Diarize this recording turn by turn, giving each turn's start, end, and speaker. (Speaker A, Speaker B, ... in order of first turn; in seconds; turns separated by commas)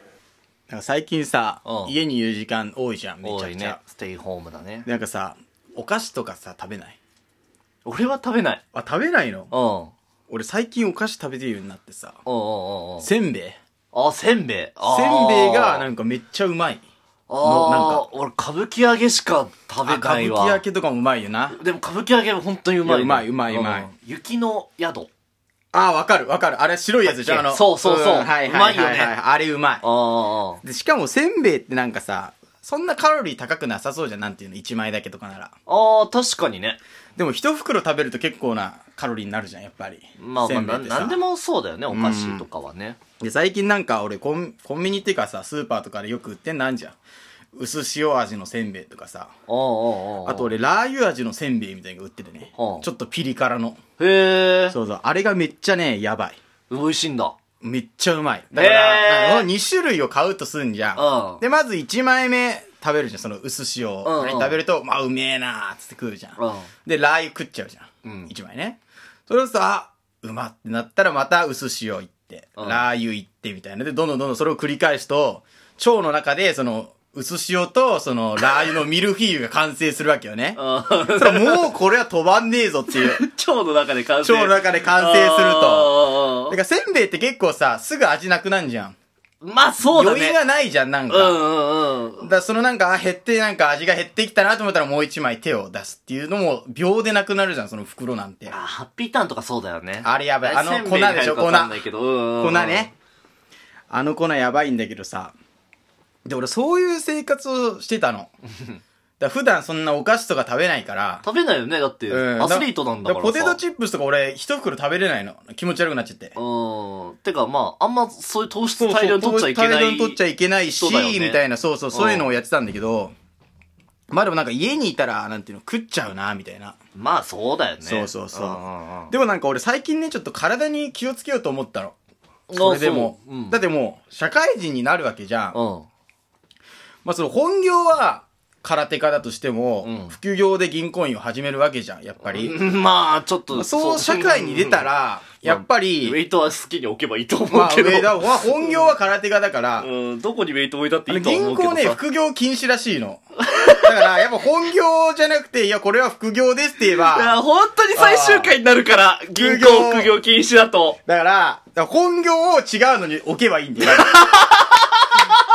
Speaker A: 0.7-3.8, Speaker B: 1.6-1.9, Speaker B: 3.2-4.9, Speaker A: 4.8-7.0, Speaker B: 7.8-8.6, Speaker A: 8.7-9.5, Speaker B: 9.5-9.9, Speaker A: 10.3-12.2, Speaker B: 12.2-13.1, Speaker A: 13.0-13.6, Speaker B: 13.9-15.8, Speaker A: 14.8-16.8, Speaker B: 17.3-20.6, Speaker A: 17.4-18.1, Speaker A: 19.8-21.6, Speaker B: 21.5-25.1, Speaker A: 22.8-23.9, Speaker A: 25.7-29.8, Speaker B: 27.1-29.1, Speaker B: 29.8-30.6, Speaker A: 30.6-35.5, Speaker B: 35.7-36.8, Speaker A: 37.2-41.2, Speaker B: 40.2-43.0, Speaker A: 41.9-42.5, Speaker A: 43.2-47.0, Speaker A: 47.5-49.3, Speaker B: 49.5-50.5, Speaker A: 50.2-53.8, Speaker B: 52.5-52.9, Speaker B: 54.0-54.8, Speaker A: 54.7-56.4, Speaker B: 56.7-57.4, Speaker A: 57.6-83.2, Speaker B: 58.5-59.5, Speaker B: 61.0-61.4, Speaker B: 64.0-64.6, Speaker B: 66.4-66.7, Speaker B: 68.0-68.3, Speaker B: 72.6-72.8, Speaker B: 80.5-81.7, Speaker B: 82.9-86.5, Speaker A: 84.2-88.9, Speaker B: 89.4-90.4, Speaker A: 89.8-91.4, Speaker B: 91.1-92.3, Speaker A: 92.2-98.6, Speaker B: 98.5-102.9, Speaker A: 100.0-101.8, Speaker A: 102.4-102.9, Speaker A: 103.9-105.3, Speaker A: 106.2-108.3, Speaker A: 109.2-111.2, Speaker B: 111.2-113.6, Speaker A: 112.1-116.3, Speaker B: 116.3-120.2, Speaker A: 118.8-123.1, Speaker B: 120.7-121.4, Speaker B: 121.9-122.3, Speaker A: 124.1-126.8, Speaker B: 126.9-129.1, Speaker A: 127.8-131.9, Speaker B: 132.5-133.6, Speaker A: 132.5-135.6, Speaker B: 135.5-135.9, Speaker A: 137.0-142.6, Speaker B: 139.8-140.1, Speaker B: 142.2-144.8, Speaker A: 143.5-146.2, Speaker B: 145.4-148.9, Speaker A: 147.5-149.9, Speaker B: 149.8-152.0, Speaker A: 151.1-153.2, Speaker B: 153.4-154.1, Speaker A: 153.8-157.4, Speaker B: 157.0-161.0, Speaker A: 157.9-158.6, Speaker A: 159.3-160.2, Speaker A: 161.1-164.2, Speaker B: 163.8-165.4